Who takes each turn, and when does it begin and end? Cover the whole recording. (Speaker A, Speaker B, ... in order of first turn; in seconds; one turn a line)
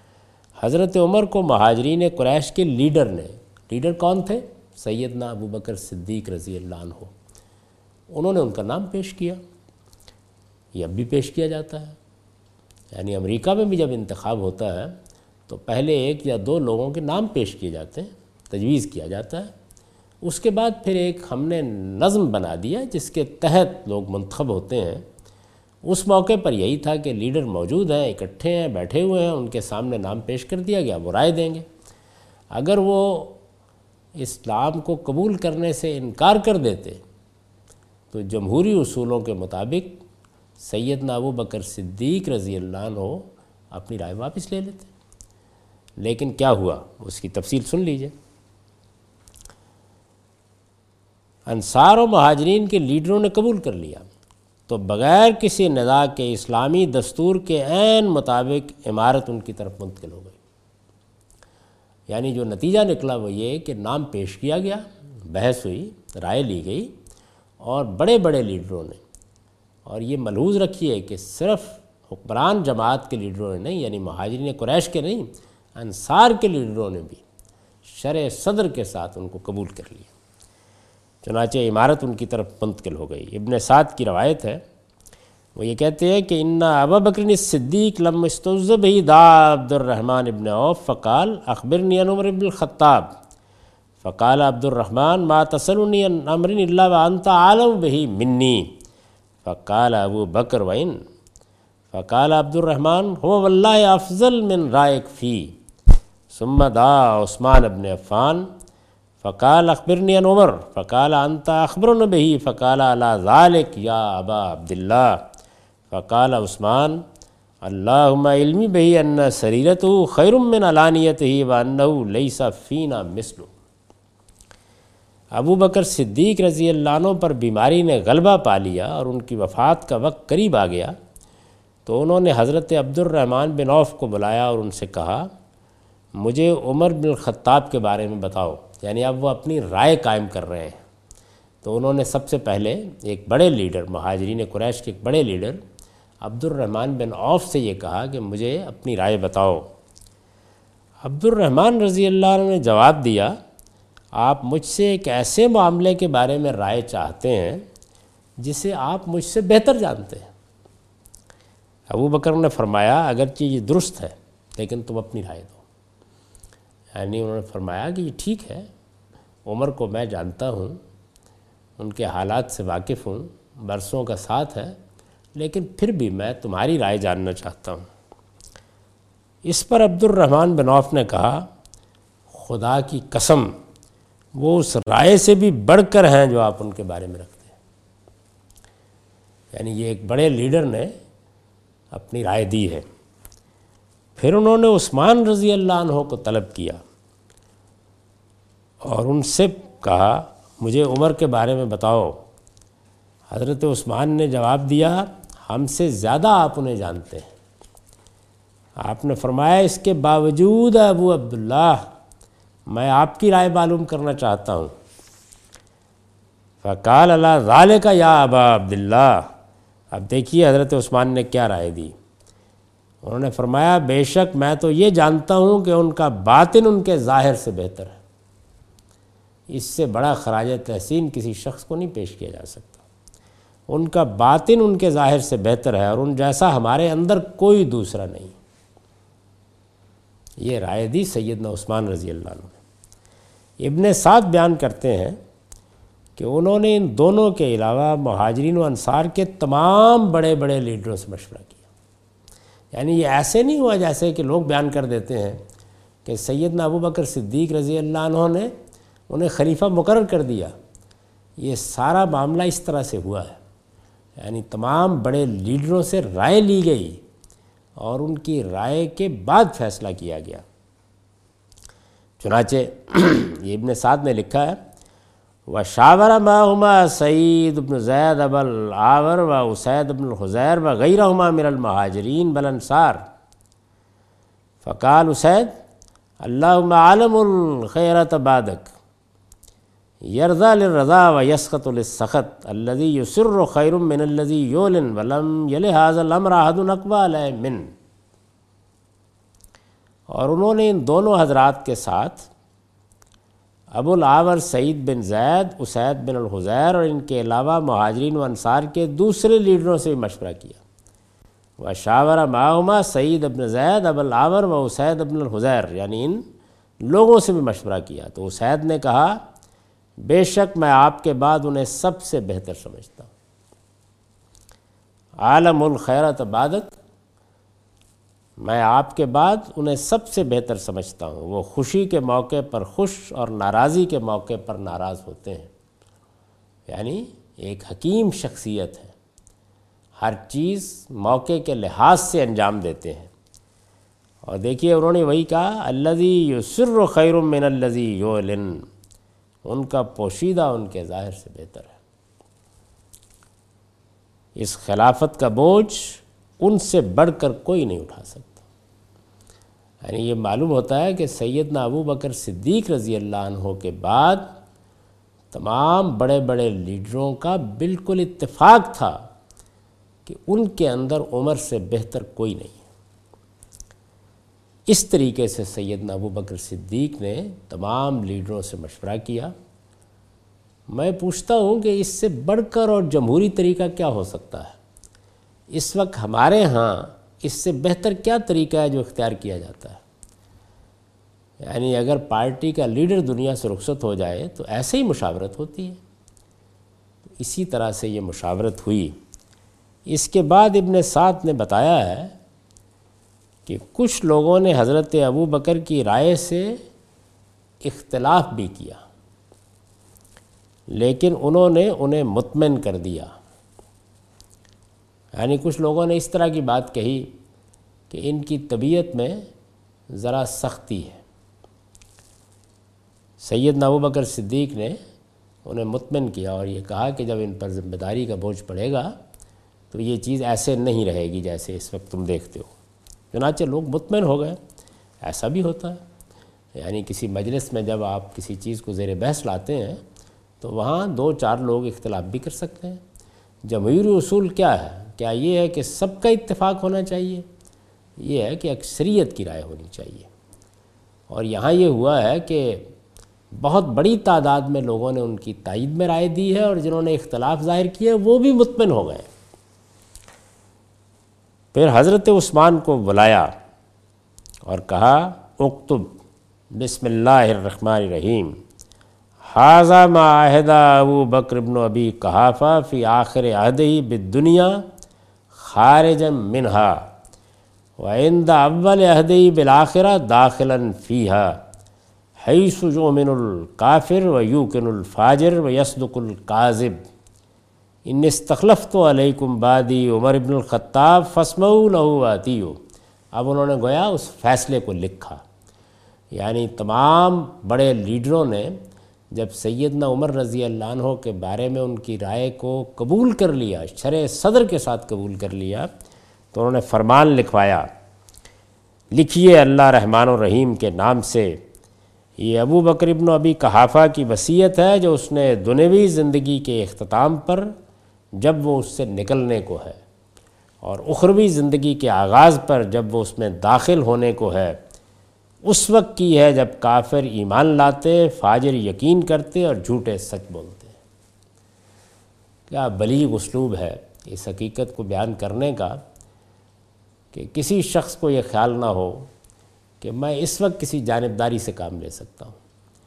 Speaker A: 0.6-7.1
Speaker A: 8.1-9.4
Speaker A: 10.7-12.0
Speaker A: 12.9-19.5
Speaker A: 20.2-25.0
Speaker A: 25.8-31.6
Speaker A: 32.5-33.4
Speaker A: 34.1-37.0
Speaker A: 38.1-40.0
Speaker A: 40.6-44.9
Speaker A: 46.0-48.1
Speaker A: 51.5-54.0
Speaker A: 54.7-60.4
Speaker A: 62.1-66.9
Speaker A: 67.6-69.0
Speaker A: 69.8-77.2
Speaker A: 77.8-80.1
Speaker A: 81.2-84.6
Speaker A: 85.5-93.1
Speaker A: 94.0-98.7
Speaker A: 99.4-101.0
Speaker A: 101.9-105.5
Speaker A: 106.3-108.5
Speaker A: 109.2-115.2
Speaker A: 115.9-117.0
Speaker A: 117.6-123.5
Speaker A: 125.3-130.9
Speaker A: 131.8-135.3
Speaker A: 136.1-140.8
Speaker A: 141.6-145.6
Speaker A: 146.2-149.7
Speaker A: 151.0-153.4
Speaker A: 154.1-157.7
Speaker A: 158.4-160.3
Speaker A: 161.9-165.6
Speaker A: 166.9-168.7
Speaker A: 169.4-170.8
Speaker A: 171.8-174.8
Speaker A: 175.3-177.9
Speaker A: 179.4-181.5
Speaker A: 182.3-183.5
Speaker A: 184.3-187.6
Speaker A: 189.5-190.9
Speaker A: 191.9-192.8
Speaker A: 194.2-196.8
Speaker A: 198.8-202.2
Speaker A: 203.3-207.3
Speaker A: 208.8-211.9
Speaker A: 212.7-214.7
Speaker A: 216.6-219.3
Speaker A: 219.9-221.9
Speaker A: 223.0-228.0
Speaker A: 229.5-232.8
Speaker A: 233.7-238.3
Speaker A: 240.4-242.6
Speaker A: 243.6-245.2
Speaker A: 246.2-251.6
Speaker A: 252.7-255.4
Speaker A: 256.0-258.5
Speaker A: 259.1-260.5
Speaker A: 261.4-263.4
Speaker A: 264.2-267.0
Speaker A: 267.8-270.4
Speaker A: 272.2-274.6
Speaker A: 275.5-283.1
Speaker A: 284.6-285.6
Speaker A: 286.2-288.7
Speaker A: 290.0-297.7
Speaker A: 300.1-302.3
Speaker A: 303.7-310.6
Speaker A: 311.6-316.2
Speaker A: 316.8-319.2
Speaker A: 320.0-323.1
Speaker A: 325.2-326.8
Speaker A: 328.4-335.5
Speaker A: 336.7-338.9
Speaker A: 340.0-343.1
Speaker A: 344.2-348.6
Speaker A: 349.4-351.7
Speaker A: 354.4-358.4
Speaker A: 359.8-364.3
Speaker A: 365.3-369.1
Speaker A: 370.0-372.6
Speaker A: 374.7-379.3
Speaker A: 380.7-384.6
Speaker A: 385.5-389.8
Speaker A: 391.4-395.8
Speaker A: 397.2-399.0
Speaker A: 399.9-402.1
Speaker A: 403.4-406.6
Speaker A: 407.6-408.8
Speaker A: 410.7-413.1
Speaker A: 415.1-417.1
Speaker A: 417.9-419.3
Speaker A: 419.9-421.0
Speaker A: 423.2-424.8
Speaker A: 425.4-428.9
Speaker A: 429.7-432.5
Speaker A: 433.1-434.4
Speaker A: 435.0-435.8
Speaker A: 436.5-439.8
Speaker A: 440.4-442.8
Speaker A: 443.4-447.2
Speaker A: 448.0-450.1
Speaker A: 451.1-452.7
Speaker A: 453.3-459.1
Speaker A: 461.5-463.3
Speaker A: 464.4-465.9
Speaker A: 466.5-468.4
Speaker A: 469.3-474.6
Speaker A: 475.3-476.9
Speaker A: 477.8-481.4
Speaker A: 482.2-486.8
Speaker A: 487.9-492.6
Speaker A: 493.1-495.2
Speaker A: 496.1-498.6
Speaker A: 499.1-505.7
Speaker A: 506.3-507.7
Speaker A: 508.9-511.4
Speaker A: 512.2-517.5
Speaker A: 518.2-519.8
Speaker A: 520.6-524.6
Speaker A: 525.4-530.8
Speaker A: 532.5-535.8
Speaker A: 537.1-539.1
Speaker A: 539.8-542.4